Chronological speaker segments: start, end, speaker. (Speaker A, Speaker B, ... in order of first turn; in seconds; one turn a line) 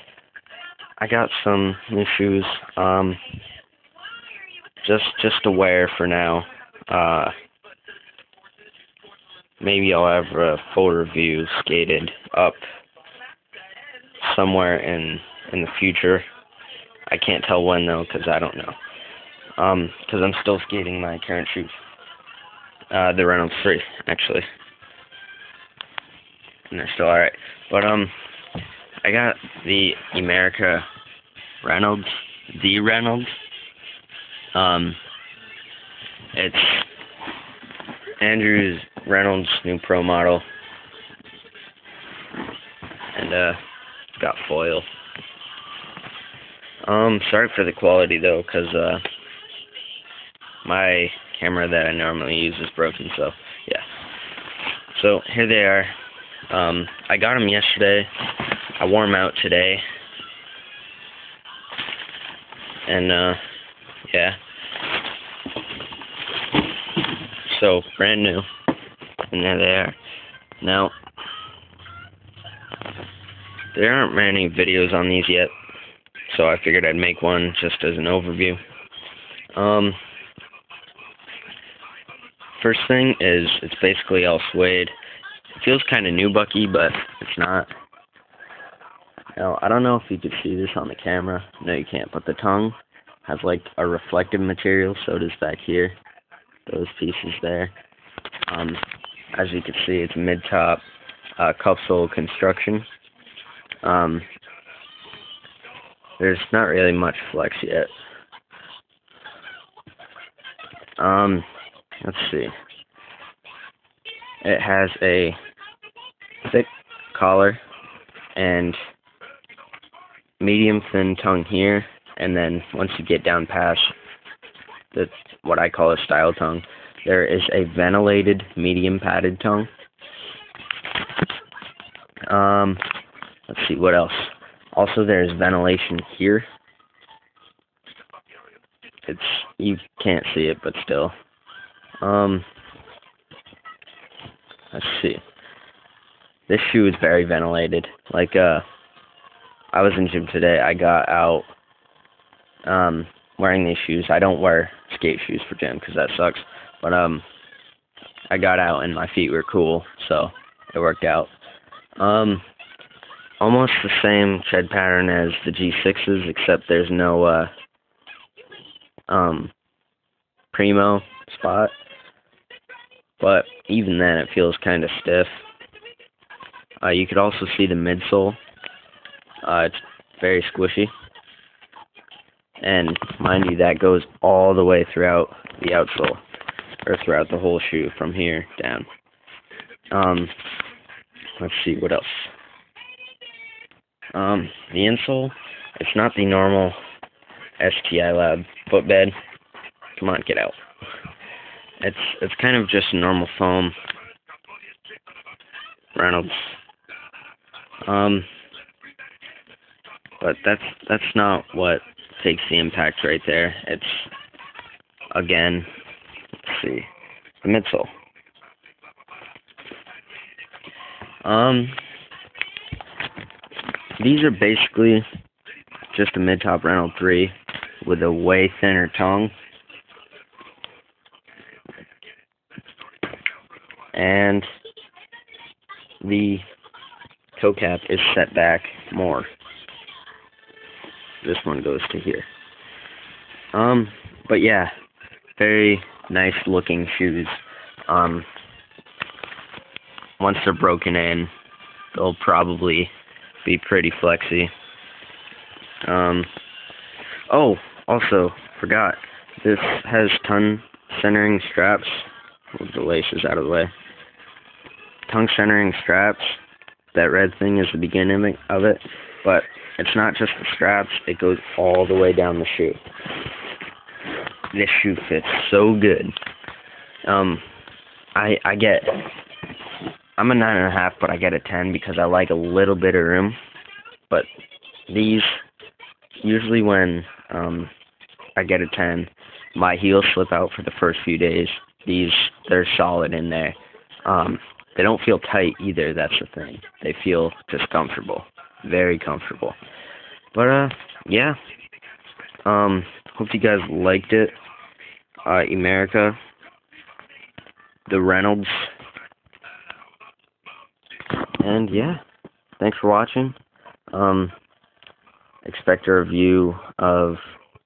Speaker A: 1.0-3.2
Speaker A: 4.8-7.3
Speaker A: 9.6-12.6
Speaker A: 14.2-16.2
Speaker A: 17.1-18.8
Speaker A: 19.6-21.7
Speaker A: 22.9-24.4
Speaker A: 26.7-28.1
Speaker A: 29.0-30.9
Speaker A: 31.6-33.3
Speaker A: 34.5-35.0
Speaker A: 36.3-36.9
Speaker A: 38.2-40.4
Speaker A: 43.1-43.6
Speaker A: 44.2-44.9
Speaker A: 46.9-49.0
Speaker A: 50.6-53.8
Speaker A: 54.9-56.0
Speaker A: 56.5-58.1
Speaker A: 58.8-59.8
Speaker A: 62.9-63.4
Speaker A: 64.1-64.4
Speaker A: 67.5-68.5
Speaker A: 69.3-70.0
Speaker A: 70.6-71.0
Speaker A: 73.7-75.5
Speaker A: 76.3-78.6
Speaker A: 79.5-80.0
Speaker A: 82.5-84.9
Speaker A: 85.5-87.7
Speaker A: 89.4-95.9
Speaker A: 96.7-97.7
Speaker A: 98.5-98.8
Speaker A: 99.3-100.8
Speaker A: 101.4-102.9
Speaker A: 103.8-104.2
Speaker A: 106.2-107.9
Speaker A: 111.0-111.5
Speaker A: 112.0-112.5
Speaker A: 114.4-115.4
Speaker A: 116.5-117.6
Speaker A: 118.3-118.8
Speaker A: 120.4-123.9
Speaker A: 124.9-129.7
Speaker A: 132.3-132.8
Speaker A: 133.5-136.5
Speaker A: 139.1-141.1
Speaker A: 142.0-142.4
Speaker A: 144.7-145.2
Speaker A: 146.5-148.6
Speaker A: 149.7-151.5
Speaker A: 152.7-157.2
Speaker A: 158.3-161.3
Speaker A: 162.0-162.4
Speaker A: 163.4-167.5
Speaker A: 169.1-169.5
Speaker A: 170.5-171.7
Speaker A: 173.2-175.4
Speaker A: 176.8-178.4
Speaker A: 179.4-180.9
Speaker A: 182.6-186.2
Speaker A: 186.8-188.9
Speaker A: 189.9-190.3
Speaker A: 191.4-192.3
Speaker A: 194.1-196.8
Speaker A: 197.6-199.2
Speaker A: 200.0-200.6
Speaker A: 201.8-203.7
Speaker A: 205.9-206.6
Speaker A: 207.8-208.3
Speaker A: 210.2-214.1
Speaker A: 215.1-215.7
Speaker A: 216.4-216.9
Speaker A: 217.4-217.9
Speaker A: 221.2-221.8
Speaker A: 224.0-225.1
Speaker A: 225.9-229.3
Speaker A: 233.9-234.5
Speaker A: 236.0-236.4
Speaker A: 237.3-239.3
Speaker A: 241.2-242.3
Speaker A: 243.5-244.7
Speaker A: 245.4-247.3
Speaker A: 247.9-248.3
Speaker A: 250.2-251.3
Speaker A: 251.9-252.9
Speaker A: 253.4-254.5
Speaker A: 255.8-256.3
Speaker A: 257.3-263.7
Speaker A: 265.1-266.4
Speaker A: 266.9-272.8
Speaker A: 274.5-276.1
Speaker A: 277.1-277.4
Speaker A: 278.1-279.0
Speaker A: 280.2-283.4
Speaker A: 284.9-285.4
Speaker A: 286.2-287.7
Speaker A: 288.4-299.6
Speaker A: 300.3-301.4
Speaker A: 302.4-304.4
Speaker A: 305.2-306.2
Speaker A: 307.9-308.7
Speaker A: 311.4-312.0
Speaker A: 312.6-313.4
Speaker A: 313.9-314.3
Speaker A: 315.4-317.4